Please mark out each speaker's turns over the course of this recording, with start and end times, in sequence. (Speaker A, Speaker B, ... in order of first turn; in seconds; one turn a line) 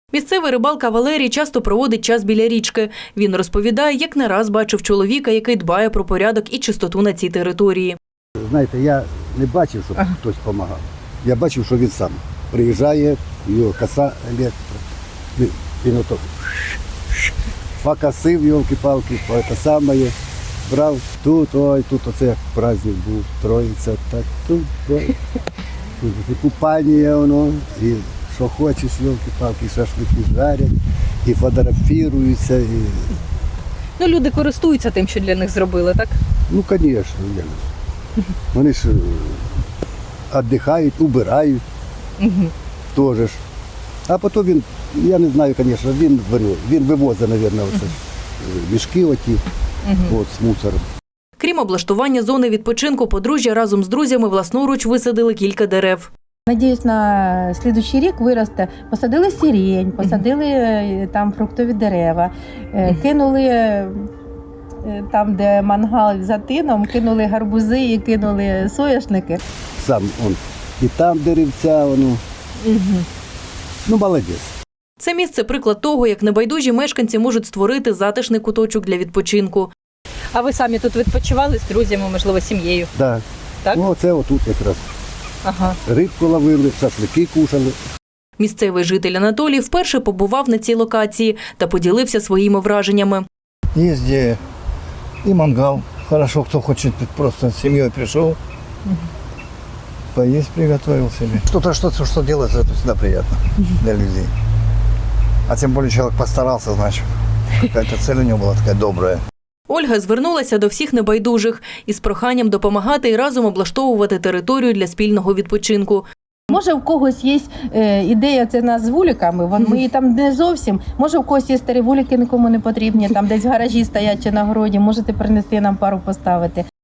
Speaker A: 0.1-8.0
Speaker B: 8.4-14.8
Speaker B: 15.4-16.3
Speaker B: 17.8-20.1
Speaker B: 20.7-25.1
Speaker B: 26.0-33.1
Speaker C: 34.0-36.2
Speaker B: 36.5-37.6
Speaker B: 38.5-39.4
Speaker B: 40.3-41.6
Speaker C: 42.2-42.5
Speaker B: 42.9-43.4
Speaker B: 44.1-49.4
Speaker C: 49.9-50.1
Speaker B: 50.1-50.9
Speaker A: 51.4-56.1
Speaker D: 56.5-63.9
Speaker D: 64.8-69.4
Speaker B: 69.8-72.2
Speaker C: 72.6-73.1
Speaker B: 73.9-74.5
Speaker A: 75.0-79.7
Speaker C: 80.3-82.9
Speaker B: 83.0-84.8
Speaker C: 85.5-85.8
Speaker B: 85.8-87.8
Speaker A: 88.4-93.2
Speaker E: 93.8-94.4
Speaker E: 95.2-98.4
Speaker E: 100.2-104.3
Speaker E: 105.5-107.0
Speaker E: 107.7-109.2
Speaker A: 109.7-116.0
Speaker D: 116.5-126.6